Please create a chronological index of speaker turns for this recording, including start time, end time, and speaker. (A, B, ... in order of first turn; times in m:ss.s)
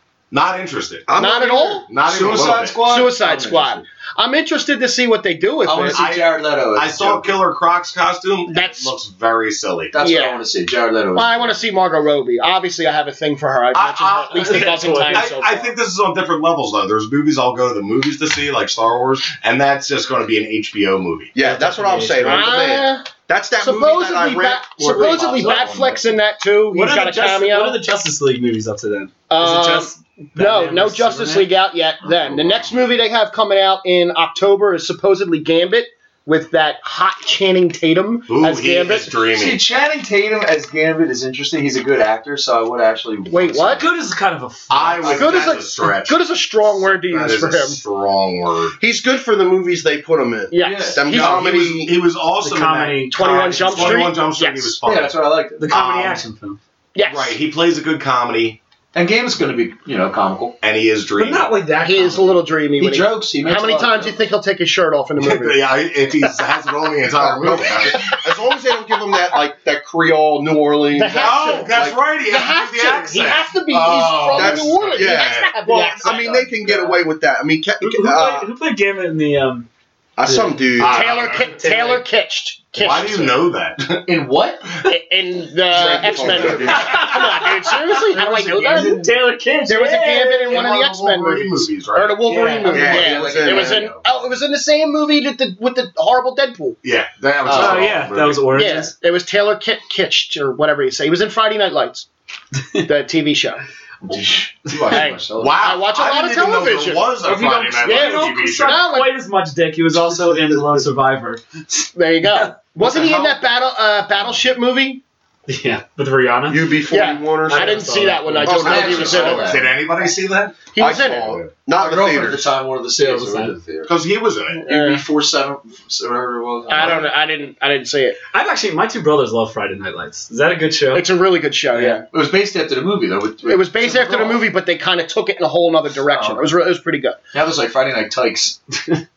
0:00.3-0:01.1 A
0:01.1-0:02.6 B
0:01.2-0:01.9 C
0:01.9-0:02.8 A
0:02.0-0:03.8 D
0:02.8-0:06.1 C
0:05.6-0:07.3 D
0:05.9-0:09.9 A
0:08.5-0:08.9 C
0:09.9-0:11.6 D
0:10.0-0:10.4 C
0:11.1-0:15.6 C
0:13.7-0:21.4 A
0:14.4-0:15.3 E
0:21.3-0:25.8 B
0:21.4-0:22.6 E
0:22.2-0:27.8 C
0:24.8-0:26.0 D
0:26.7-0:31.5 E
0:29.3-0:39.2 C
0:32.1-0:32.9 A
0:38.3-0:39.6 A
0:39.3-0:43.9 D
0:43.3-0:43.8 C
0:43.7-0:45.5 E
0:44.7-0:48.8 A
0:45.0-0:47.8 C
0:48.8-0:52.0 B
0:50.5-0:51.4 C
0:50.6-0:51.0 D
0:51.0-0:56.2 A
0:52.4-0:54.1 E
0:53.1-0:54.8 C
0:54.8-0:55.7 D
0:55.6-0:56.6 E
0:56.9-0:57.4 C
0:57.0-0:58.6 A
0:58.9-1:00.6 D
1:00.6-1:01.5 A
1:01.2-1:02.4 E
1:01.8-1:06.4 C
1:02.8-1:04.2 D
1:05.2-1:08.1 A
1:07.1-1:12.0 B
1:07.9-1:08.2 C
1:11.0-1:16.5 C
1:11.2-1:15.5 A
1:14.3-1:18.5 B
1:16.6-1:17.0 D
1:17.8-1:19.7 E
1:20.2-1:21.0 B
1:20.3-1:22.0 E
1:20.8-1:21.5 A
1:20.8-1:23.3 C
1:22.7-1:23.2 E
1:22.8-1:24.0 A
1:24.1-1:24.7 D
1:24.8-1:29.1 C
1:25.7-1:27.2 B
1:26.2-1:26.6 D
1:26.3-1:26.5 A
1:26.7-1:27.9 E
1:28.1-1:29.1 D
1:28.7-1:30.5 E
1:29.6-1:36.8 C
1:30.4-1:33.2 A
1:32.3-1:32.8 E
1:32.6-1:33.9 D
1:32.7-1:33.9 B
1:36.8-1:38.4 A
1:37.4-1:38.0 D
1:37.5-1:38.9 E
1:38.5-1:42.1 C
1:42.8-1:43.6 C
1:44.0-1:45.6 D
1:44.9-1:47.2 C
1:45.4-1:48.8 A
1:47.2-1:52.5 E
1:47.8-1:49.1 C
1:51.9-1:55.0 C
1:52.8-1:53.4 A
1:55.5-1:56.8 E
1:56.5-1:57.9 B
1:56.9-1:59.6 C
1:57.5-1:59.0 E
1:58.4-1:59.5 B
1:58.5-1:59.7 D
1:58.5-2:00.7 A
2:00.7-2:01.4 C
2:00.8-2:02.6 B
2:01.7-2:03.9 D
2:03.0-2:03.5 E
2:03.9-2:04.6 A
2:04.6-2:05.0 C
2:04.6-2:07.1 D
2:06.7-2:08.2 C
2:08.3-2:11.2 E
2:10.9-2:12.0 C
2:11.9-2:14.5 D
2:13.4-2:17.2 C
2:16.1-2:16.5 D
2:17.3-2:18.6 D